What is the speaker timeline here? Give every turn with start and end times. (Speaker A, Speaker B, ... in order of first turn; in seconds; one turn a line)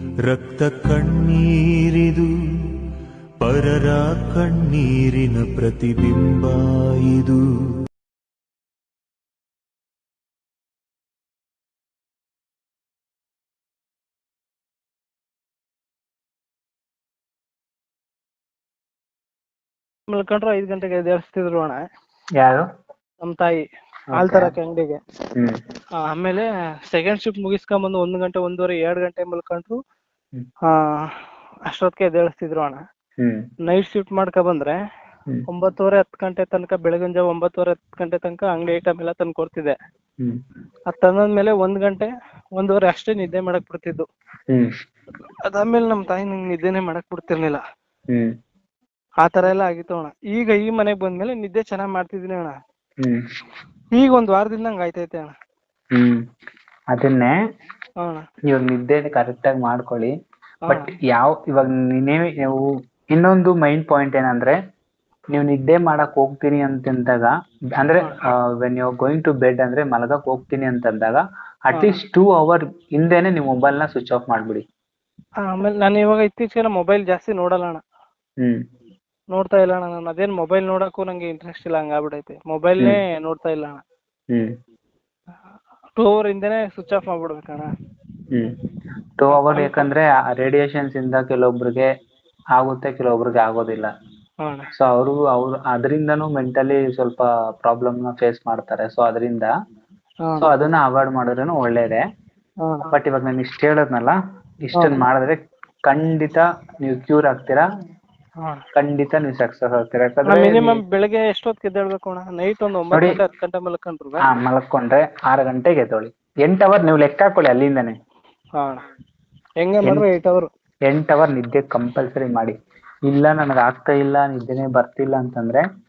Speaker A: 0.3-2.3
Speaker A: 3.4-7.4
Speaker B: 20.1-21.8
Speaker C: 22.4-22.7
Speaker B: 23.2-25.0
Speaker C: 24.1-24.5
Speaker B: 26.0-29.8
Speaker B: 30.7-31.1
Speaker B: 31.7-32.8
Speaker B: 33.7-34.8
Speaker B: 35.5-39.8
Speaker B: 40.9-44.1
Speaker B: 45.5-47.6
Speaker B: 49.2-52.5
Speaker B: 54.0-55.3
Speaker C: 55.9-56.2
Speaker C: 56.9-57.3
Speaker C: 58.5-60.1
Speaker B: 60.7-60.9
Speaker C: 60.7-64.6
Speaker C: 65.3-74.6
Speaker B: 71.7-72.0
Speaker B: 75.4-77.8
Speaker B: 79.3-83.8
Speaker B: 86.0-87.7
Speaker C: 89.2-91.9
Speaker B: 89.3-89.9
Speaker C: 92.5-93.9
Speaker B: 94.4-94.7
Speaker C: 94.8-99.5
Speaker B: 100.2-100.5
Speaker C: 100.4-102.0
Speaker B: 102.6-102.9
Speaker C: 102.9-107.6
Speaker B: 104.8-105.0
Speaker C: 108.8-110.8
Speaker B: 110.3-114.3
Speaker C: 112.9-113.2
Speaker C: 114.2-118.0
Speaker B: 119.6-120.5
Speaker C: 120.9-122.5
Speaker C: 123.1-125.6